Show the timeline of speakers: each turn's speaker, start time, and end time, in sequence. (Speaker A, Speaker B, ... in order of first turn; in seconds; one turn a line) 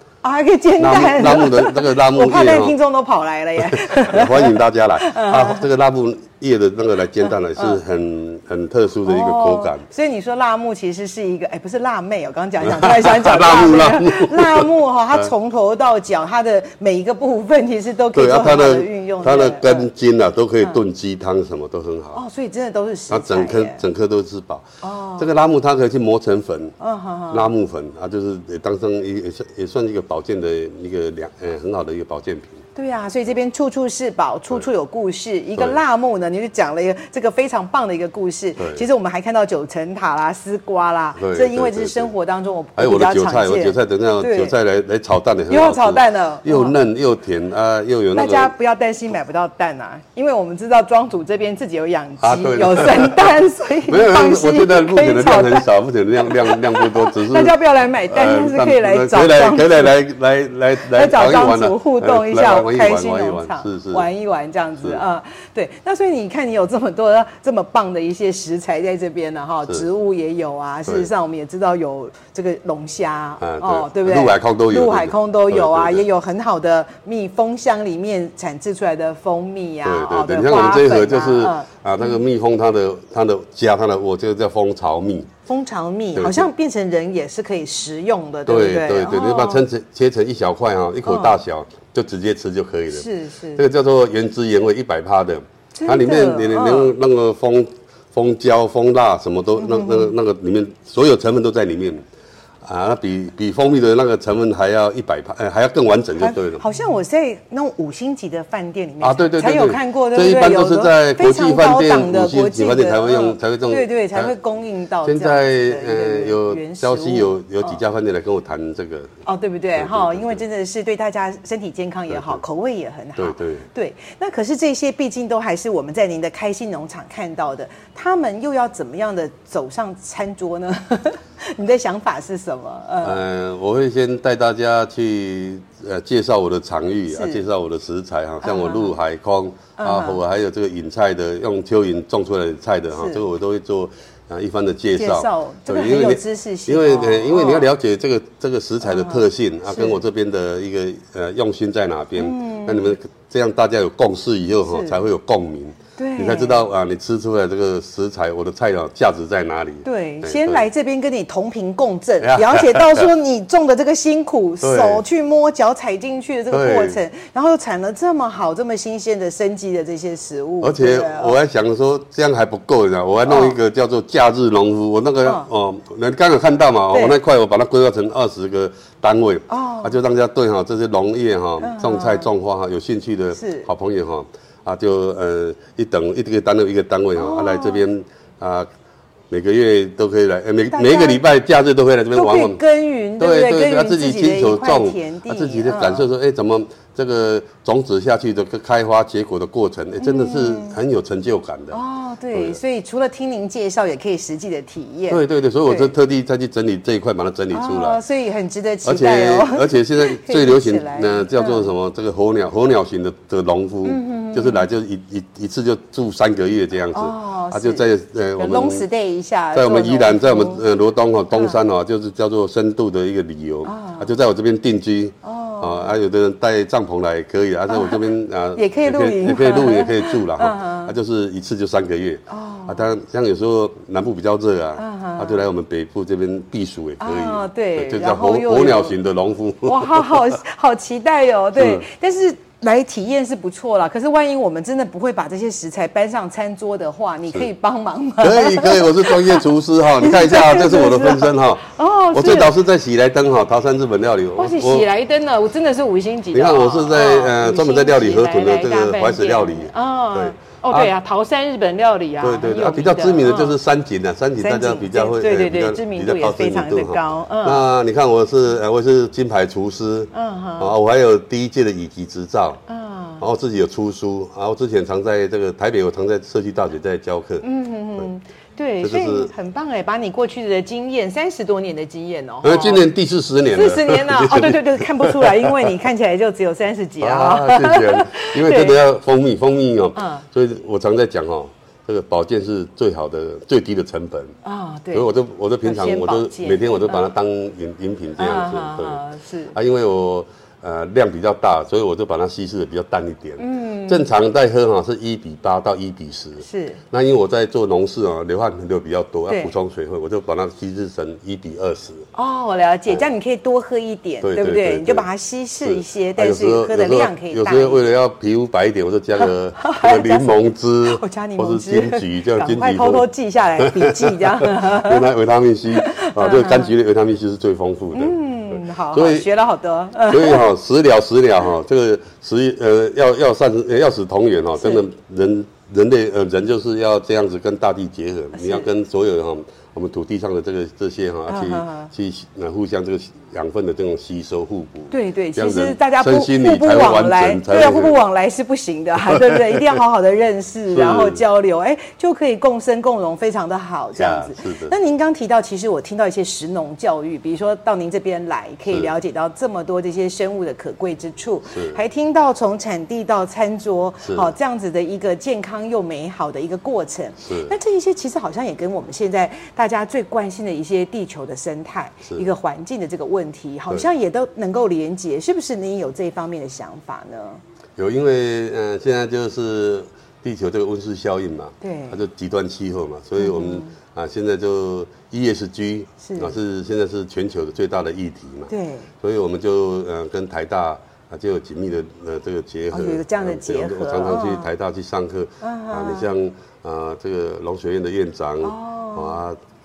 Speaker A: 0.2-5.6
Speaker B: 0.8-2.8
Speaker B: 3.6-9.8
Speaker A: 9.1-19.9
Speaker B: 12.6-14.7
Speaker B: 18.1-22.2
Speaker A: 22.1-23.8
Speaker B: 23.1-24.6
Speaker A: 24.8-25.3
Speaker B: 25.2-26.7
Speaker A: 26.8-27.5
Speaker B: 27.3-32.6
Speaker A: 32.8-44.5
Speaker B: 38.6-38.8
Speaker B: 41.2-42.1
Speaker B: 42.8-48.5
Speaker A: 45.5-46.8
Speaker A: 48.1-55.7
Speaker B: 52.2-57.6
Speaker A: 56.2-59.9
Speaker B: 58.1-64.1
Speaker A: 60.8-82.2
Speaker B: 73.4-76.0
Speaker B: 79.8-85.3
Speaker A: 85.5-89.7
Speaker B: 86.2-86.4
Speaker B: 88.5-102.0
Speaker A: 91.1-91.4
Speaker A: 92.9-93.6
Speaker A: 95.8-96.9
Speaker A: 99.6-100.1
Speaker B: 102.6-106.6
Speaker A: 106.2-117.8
Speaker B: 109.0-114.3
Speaker B: 115.0-119.1
Speaker A: 119.2-133.2
Speaker B: 119.8-120.4
Speaker B: 122.1-122.4
Speaker B: 123.2-123.7
Speaker B: 133.0-160.6
Speaker A: 137.1-137.4
Speaker A: 138.4-138.9
Speaker A: 139.8-140.2
Speaker A: 142.9-143.2
Speaker A: 144.9-147.7
Speaker A: 148.8-150.0
Speaker A: 152.2-153.0
Speaker A: 154.7-155.0
Speaker A: 156.0-156.7
Speaker A: 159.8-171.4
Speaker B: 162.2-163.1
Speaker B: 164.6-165.0
Speaker B: 166.5-167.0
Speaker B: 170.6-188.7
Speaker A: 173.2-173.6
Speaker A: 176.9-177.2
Speaker A: 179.5-180.0
Speaker A: 181.6-182.3
Speaker A: 183.3-183.7
Speaker A: 187.2-187.8
Speaker B: 189.3-192.6
Speaker A: 190.7-191.2
Speaker A: 192.1-196.1
Speaker B: 193.2-201.8
Speaker A: 200.0-200.8
Speaker A: 201.7-205.9
Speaker B: 202.3-202.6
Speaker B: 205.1-208.0
Speaker A: 207.5-211.7
Speaker B: 208.8-218.9
Speaker A: 213.8-214.7
Speaker A: 216.9-220.6
Speaker B: 219.5-240.2
Speaker A: 221.3-221.6
Speaker A: 223.7-224.1
Speaker A: 225.2-225.9
Speaker A: 227.7-230.9
Speaker A: 232.3-232.9
Speaker A: 234.8-235.4
Speaker A: 237.0-239.0
Speaker A: 239.6-249.4
Speaker B: 241.6-241.8
Speaker B: 248.2-254.9
Speaker A: 250.0-252.5
Speaker A: 254.4-263.6
Speaker B: 256.3-260.9
Speaker B: 262.2-272.6
Speaker A: 264.4-267.6
Speaker A: 270.1-270.7
Speaker A: 272.7-273.2
Speaker B: 273.2-277.4
Speaker A: 277.4-282.9
Speaker B: 278.8-279.3
Speaker B: 282.4-285.5
Speaker A: 283.5-288.8
Speaker B: 287.0-294.3
Speaker A: 289.9-290.2
Speaker A: 294.4-295.1
Speaker B: 294.9-299.0
Speaker A: 295.6-297.1
Speaker A: 298.2-299.6
Speaker B: 299.5-312.1
Speaker A: 303.4-304.1
Speaker A: 306.4-306.8
Speaker A: 309.3-309.5
Speaker A: 312.1-317.9
Speaker B: 314.2-315.1
Speaker B: 315.6-323.1
Speaker A: 319.2-320.3
Speaker A: 320.9-325.0
Speaker B: 323.6-329.3
Speaker A: 325.8-326.7
Speaker A: 327.9-330.5
Speaker B: 330.1-348.0
Speaker A: 334.6-334.8
Speaker A: 338.4-338.7
Speaker A: 341.3-341.9
Speaker A: 344.9-377.4
Speaker B: 349.2-349.6
Speaker B: 350.7-351.2
Speaker B: 354.0-354.7
Speaker B: 361.5-361.8
Speaker B: 364.0-364.3
Speaker B: 367.2-367.5
Speaker B: 377.8-388.5
Speaker A: 381.6-382.0
Speaker A: 383.2-383.7
Speaker A: 386.0-386.4
Speaker A: 388.5-388.9
Speaker B: 389.0-399.4
Speaker A: 392.7-394.5
Speaker A: 395.4-396.1
Speaker A: 398.4-399.2